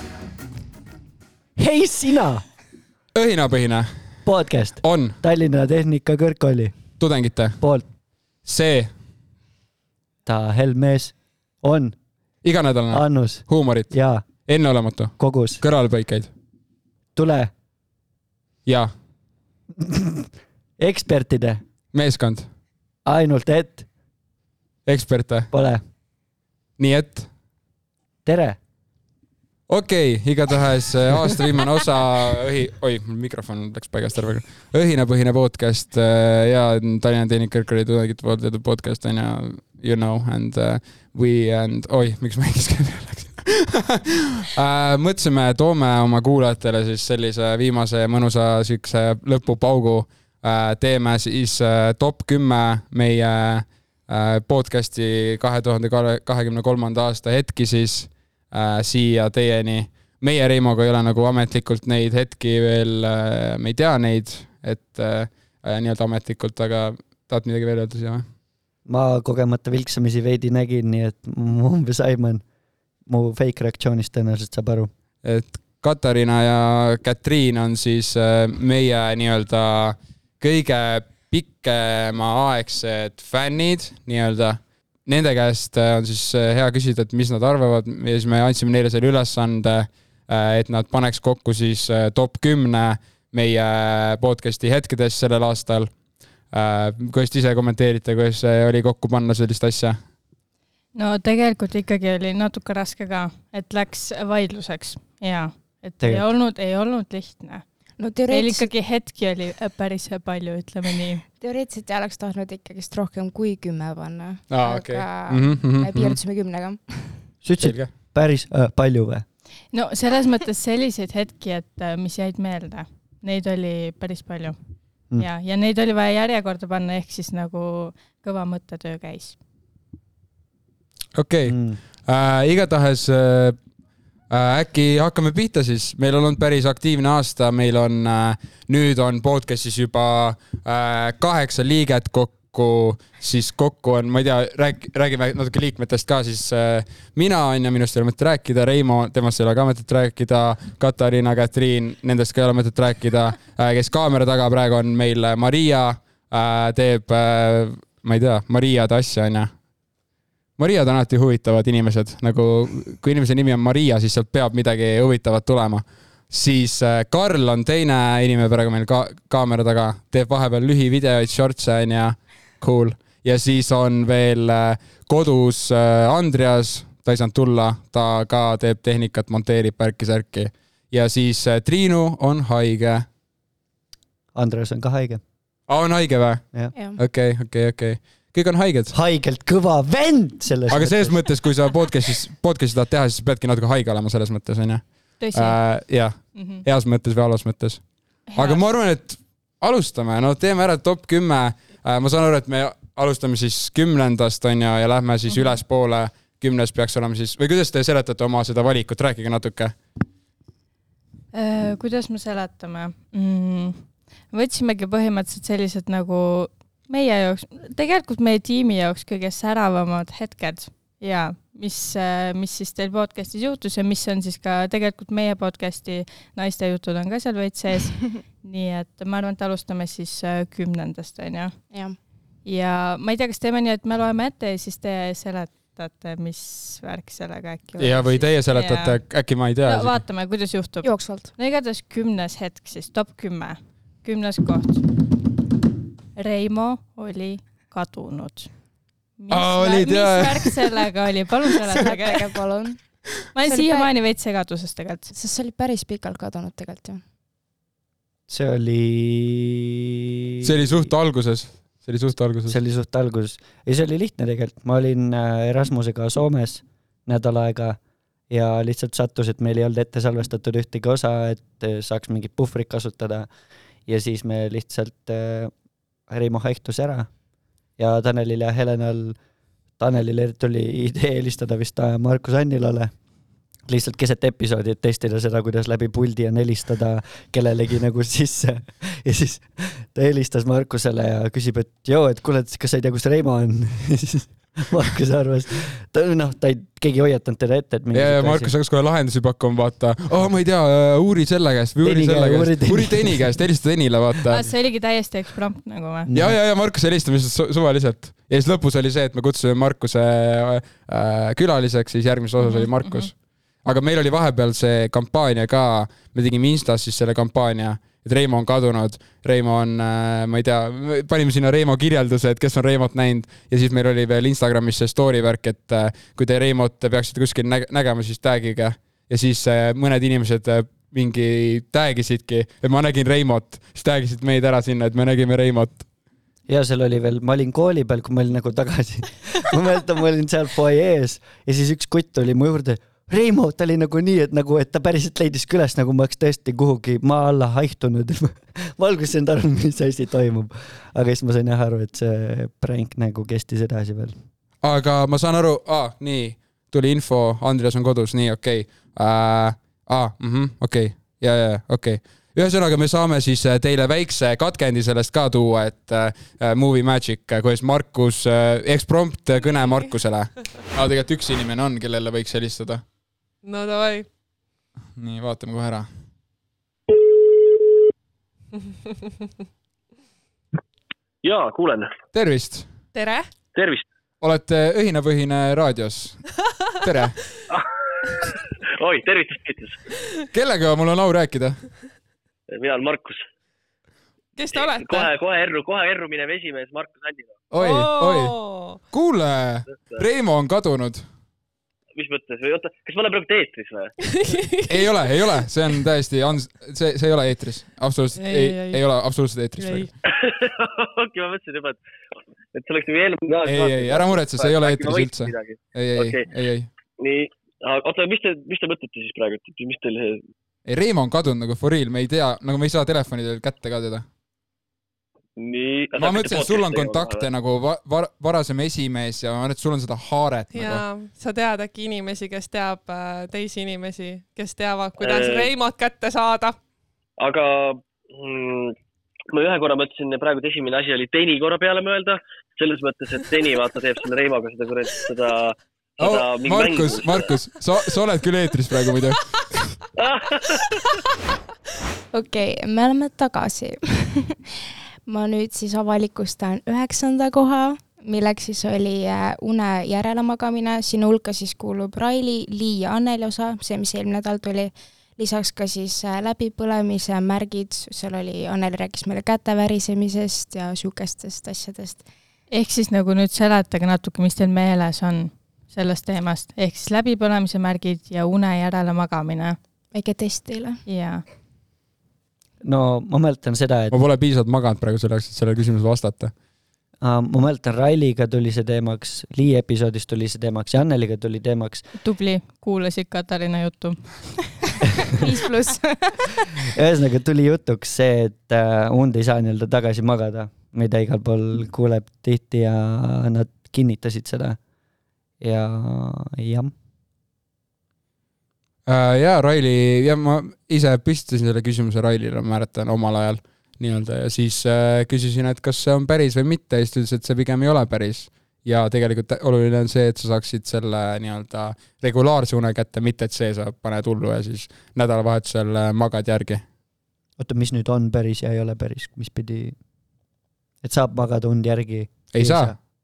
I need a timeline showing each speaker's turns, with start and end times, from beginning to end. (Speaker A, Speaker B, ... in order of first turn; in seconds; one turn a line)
Speaker A: 1.6-2.5
Speaker B: 3.1-3.9
Speaker A: 4.2-6.8
Speaker B: 4.8-5.2
Speaker B: 7.0-7.6
Speaker B: 8.4-8.9
Speaker A: 10.2-11.9
Speaker B: 12.4-13.9
Speaker A: 12.9-14.3
Speaker B: 14.4-16.3
Speaker A: 15.2-15.6
Speaker A: 17.1-17.5
Speaker B: 18.6-18.9
Speaker A: 19.8-21.6
Speaker B: 21.9-22.5
Speaker A: 23.0-23.9
Speaker B: 24.9-25.5
Speaker A: 25.5-25.8
Speaker B: 26.8-27.3
Speaker A: 28.2-28.6
Speaker B: 29.7-68.2
Speaker A: 68.8-72.4
Speaker A: 73.0-74.9
Speaker B: 75.2-95.9
Speaker B: 96.5-100.0
Speaker C: 100.9-107.6
Speaker A: 106.0-106.3
Speaker D: 108.0-108.7
Speaker C: 108.3-111.2
Speaker D: 111.4-117.2
Speaker B: 114.5-116.2
Speaker A: 117.4-119.2
Speaker B: 117.6-117.9
Speaker C: 119.7-124.6
Speaker C: 125.1-129.4
Speaker B: 131.1-133.6
Speaker A: 131.4-131.8
Speaker B: 134.3-159.5
Speaker B: 160.6-183.1
Speaker A: 184.3-185.2
Speaker B: 185.7-188.9
Speaker D: 186.7-187.0
Speaker A: 188.9-191.2
Speaker B: 190.7-209.7
Speaker C: 195.2-195.6
Speaker C: 196.3-196.6
Speaker C: 198.3-198.6
Speaker C: 205.3-205.6
Speaker C: 211.3-231.5
Speaker D: 231.7-232.0
Speaker C: 232.4-239.0
Speaker B: 237.8-240.0
Speaker C: 239.6-244.8
Speaker D: 240.8-241.3
Speaker C: 246.2-248.5
Speaker C: 249.2-252.3
Speaker B: 249.3-250.6
Speaker D: 251.7-253.9
Speaker C: 253.3-255.1
Speaker D: 255.1-257.0
Speaker A: 258.3-259.8
Speaker A: 260.4-260.9
Speaker B: 260.4-262.6
Speaker A: 262.4-267.8
Speaker A: 268.3-273.3
Speaker A: 273.9-275.5
Speaker A: 276.1-277.1
Speaker A: 277.8-279.2
Speaker A: 279.8-282.9
Speaker A: 283.6-298.5
Speaker B: 297.9-304.4
Speaker A: 301.8-303.3
Speaker C: 304.3-306.1
Speaker A: 306.1-306.4
Speaker B: 306.1-335.9
Speaker C: 312.4-313.1
Speaker A: 336.5-354.2
Speaker B: 354.6-372.8
Speaker E: 373.4-374.1
Speaker B: 374.9-375.9
Speaker F: 381.2-381.9
Speaker B: 382.1-382.7
Speaker E: 382.9-383.3
Speaker F: 383.5-383.8
Speaker B: 384.2-387.2
Speaker F: 387.5-389.8
Speaker B: 390.3-391.6
Speaker F: 392.5-393.2
Speaker E: 394.4-395.1
Speaker F: 394.5-397.4
Speaker B: 397.5-398.4
Speaker E: 397.5-398.8
Speaker B: 398.9-401.0
Speaker F: 399.7-400.0
Speaker F: 401.9-403.9
Speaker E: 404.0-404.9
Speaker B: 404.7-409.9
Speaker E: 408.2-408.8
Speaker E: 409.6-409.9
Speaker F: 410.0-411.8
Speaker F: 412.5-416.3
Speaker B: 413.4-416.7
Speaker F: 417.0-420.2
Speaker B: 420.6-424.1
Speaker F: 425.4-427.3
Speaker B: 425.9-430.8
Speaker E: 430.5-436.6
Speaker F: 435.0-435.5
Speaker F: 437.2-438.8
Speaker F: 439.3-447.3
Speaker B: 446.0-449.8
Speaker F: 450.0-450.6
Speaker D: 452.1-472.0
Speaker C: 472.5-479.6
Speaker D: 479.9-480.8
Speaker C: 480.9-481.2
Speaker A: 482.6-484.0
Speaker B: 483.9-486.3
Speaker A: 487.0-491.9
Speaker C: 492.0-495.2
Speaker D: 495.2-496.1
Speaker C: 495.7-496.2
Speaker A: 496.7-504.6
Speaker A: 505.4-506.7
Speaker B: 508.9-526.6
Speaker A: 527.4-529.8
Speaker A: 530.8-532.8
Speaker B: 532.3-532.9